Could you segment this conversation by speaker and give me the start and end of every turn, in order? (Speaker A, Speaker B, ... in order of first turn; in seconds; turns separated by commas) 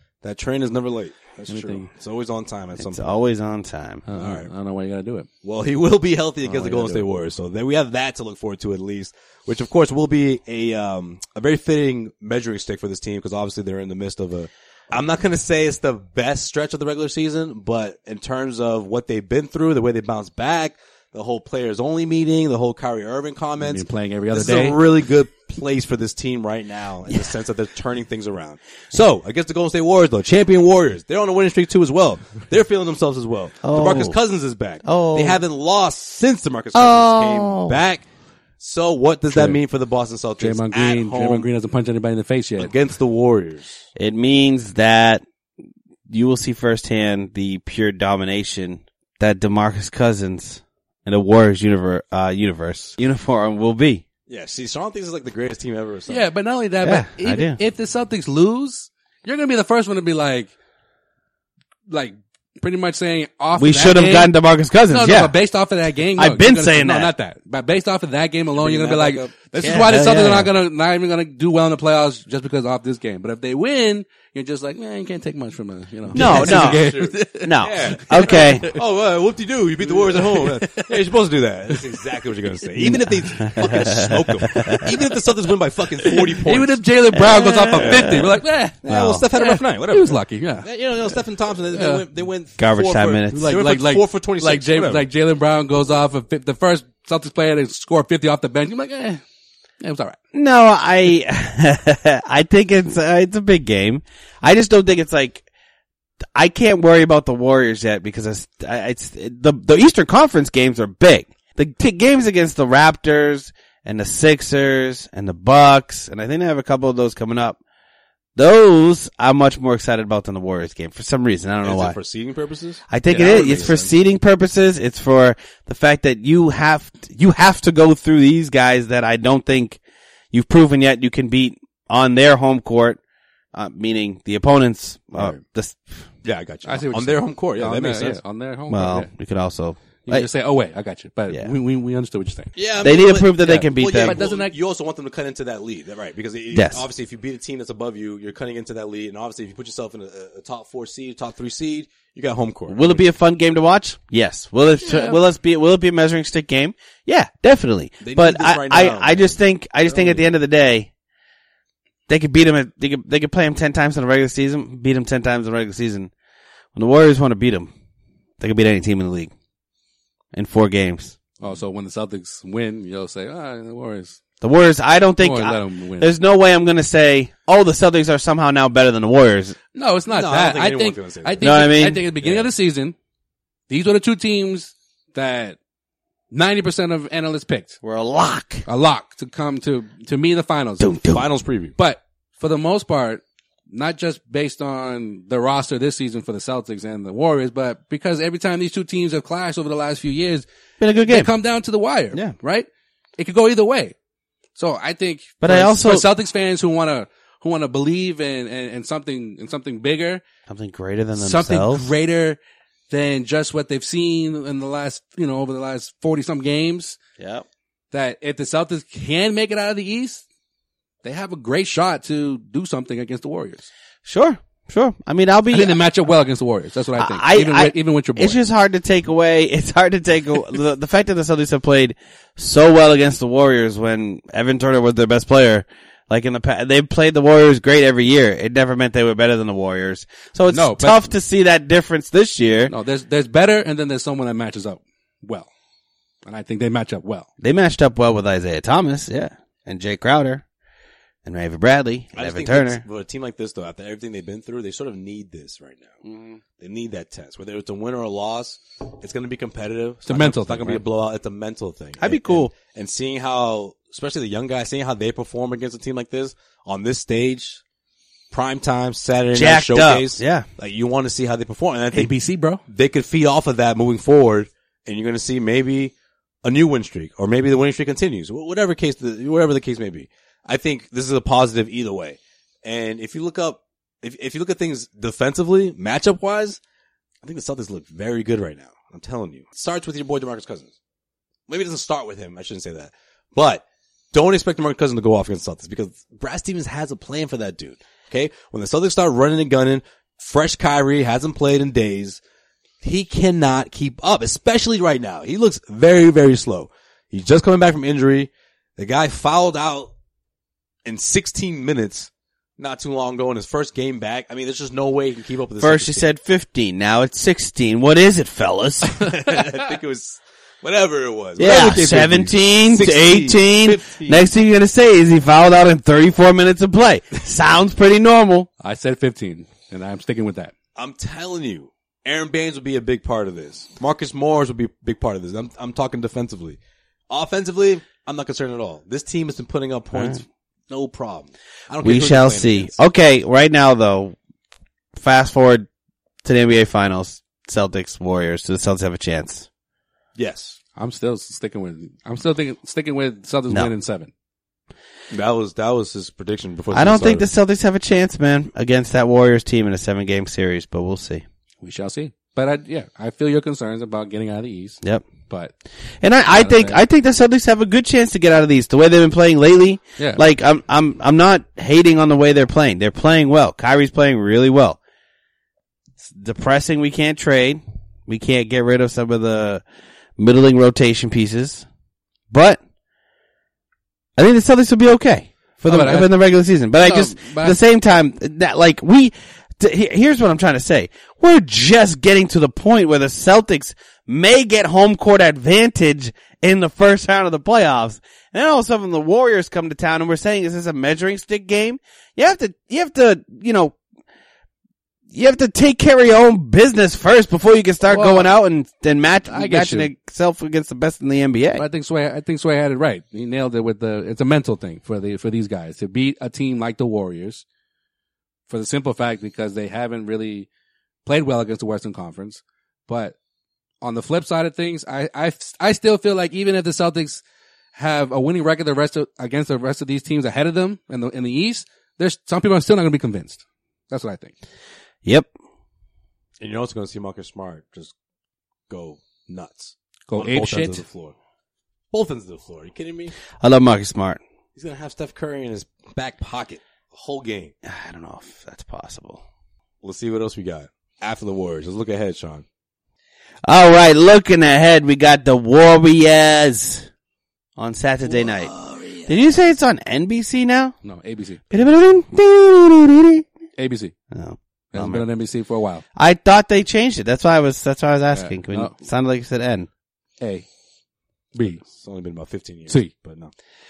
Speaker A: 0.2-3.1, Speaker B: 1.5-1.9, Speaker C: 2.8-4.0, Speaker B: 4.1-5.3, Speaker A: 4.1-4.5, Speaker A: 5.4-38.0, Speaker B: 6.4-7.1, Speaker B: 23.6-24.8, Speaker C: 33.6-34.2, Speaker C: 34.8-35.4, Speaker C: 36.7-37.8, Speaker A: 38.6-41.5, Speaker B: 39.3-39.6, Speaker B: 40.4-42.7, Speaker A: 42.6-43.8, Speaker C: 44.0-45.2, Speaker C: 46.1-54.0, Speaker A: 54.3-56.2, Speaker B: 56.1-60.5, Speaker C: 56.8-57.6, Speaker B: 61.9-64.3, Speaker C: 63.5-65.3, Speaker B: 64.9-78.8, Speaker C: 66.2-67.1, Speaker A: 68.6-69.8, Speaker C: 69.6-70.5, Speaker C: 76.1-76.9, Speaker A: 76.1-86.8, Speaker C: 77.4-78.7, Speaker B: 79.8-81.1, Speaker B: 81.7-84.0, Speaker C: 83.4-84.8, Speaker B: 84.8-85.1, Speaker B: 86.0-91.2, Speaker C: 87.1-88.3, Speaker A: 87.7-88.2, Speaker A: 88.8-95.0, Speaker C: 88.8-89.2, Speaker B: 91.7-92.0, Speaker C: 92.6-93.5, Speaker B: 93.3-99.2, Speaker B: 99.8-100.2, Speaker C: 100.3-105.4, Speaker C: 106.3-117.6, Speaker C: 118.3-122.0, Speaker A: 121.6-123.9, Speaker C: 122.9-129.8, Speaker B: 123.1-123.8, Speaker C: 130.3-133.0, Speaker C: 133.5-136.0, Speaker A: 136.2-138.2, Speaker B: 136.6-139.1, Speaker C: 138.7-140.3, Speaker B: 140.0-142.5, Speaker A: 142.6-153.0, Speaker C: 142.8-144.2, Speaker B: 143.4-144.6, Speaker C: 146.5-146.8, Speaker C: 152.7-160.9, Speaker B: 154.8-155.2, Speaker A: 158.0-159.4, Speaker A: 159.9-160.3, Speaker C: 162.1-166.1, Speaker C: 166.7-167.7, Speaker C: 168.4-169.3, Speaker C: 170.3-171.2, Speaker B: 171.4-174.2, Speaker C: 174.4-179.6, Speaker B: 175.2-176.1, Speaker B: 179.7-182.9, Speaker A: 180.1-181.7, Speaker C: 181.4-182.0, Speaker A: 182.2-182.5, Speaker B: 183.7-185.6, Speaker B: 186.3-187.8, Speaker C: 187.8-188.6, Speaker B: 188.7-191.0, Speaker C: 190.8-191.2, Speaker A: 191.1-191.7, Speaker B: 191.8-200.4, Speaker C: 200.8-201.3, Speaker B: 201.0-202.7, Speaker B: 203.2-203.9, Speaker B: 204.6-210.2, Speaker C: 205.4-206.1, Speaker C: 210.5-211.9, Speaker B: 211.2-212.4, Speaker B: 212.9-217.0, Speaker C: 217.2-217.4, Speaker B: 217.9-220.2, Speaker B: 221.0-223.7, Speaker C: 224.0-225.8, Speaker B: 225.5-228.4, Speaker C: 227.0-242.7, Speaker B: 240.5-241.1, Speaker B: 242.7-245.5, Speaker B: 246.2-247.3, Speaker C: 247.4-250.4, Speaker C: 251.2-252.8, Speaker A: 252.1-255.9, Speaker C: 256.0-256.4, Speaker A: 256.6-267.6, Speaker B: 260.1-260.8, Speaker C: 262.0-262.5, Speaker A: 268.3-272.1, Speaker C: 269.3-270.5, Speaker B: 271.9-272.6, Speaker A: 272.7-275.9, Speaker A: 276.4-286.6, Speaker A: 287.2-290.7, Speaker A: 291.5-302.2, Speaker A: 302.8-309.9, Speaker A: 310.8-316.1, Speaker C: 315.6-319.1, Speaker A: 319.0-324.3, Speaker C: 321.4-328.5, Speaker B: 328.6-330.5, Speaker A: 330.8-342.7, Speaker C: 339.9-340.2, Speaker C: 341.8-344.1, Speaker C: 344.9-345.7, Speaker C: 346.2-349.5, Speaker A: 350.1-350.6, Speaker B: 350.8-354.1, Speaker A: 355.1-357.3, Speaker C: 356.7-361.2, Speaker B: 361.6-365.5, Speaker C: 364.8-365.1, Speaker C: 366.0-374.8, Speaker B: 366.3-366.8, Speaker B: 370.0-370.2, Speaker C: 376.0-379.6, Speaker C: 380.2-381.6, Speaker C: 382.3-382.6, Speaker C: 384.2-403.8, Speaker B: 385.6-387.6, Speaker C: 405.1-411.6, Speaker B: 407.8-408.3, Speaker B: 409.2-409.9, Speaker B: 411.6-417.4, Speaker B: 418.5-420.5, Speaker B: 421.0-423.1, Speaker B: 423.8-427.2, Speaker B: 427.7-434.3, Speaker C: 435.0-435.3, Speaker A: 436.4-437.9, Speaker A: 438.7-441.1, Speaker B: 440.1-440.8, Speaker A: 441.9-443.1, Speaker C: 443.4-444.2, Speaker A: 444.6-447.5, Speaker C: 447.6-449.2, Speaker A: 449.8-452.4, Speaker C: 453.4-456.9, Speaker C: 457.6-458.5, Speaker A: 458.1-459.2, Speaker C: 459.1-460.7, Speaker B: 460.8-461.5, Speaker C: 461.5-463.2, Speaker B: 463.6-463.9, Speaker C: 464.1-465.1, Speaker B: 464.7-465.8, Speaker C: 465.9-469.7, Speaker B: 468.1-468.7, Speaker B: 470.2-470.4, Speaker B: 471.3-471.6, Speaker A: 471.4-473.3, Speaker B: 472.7-472.9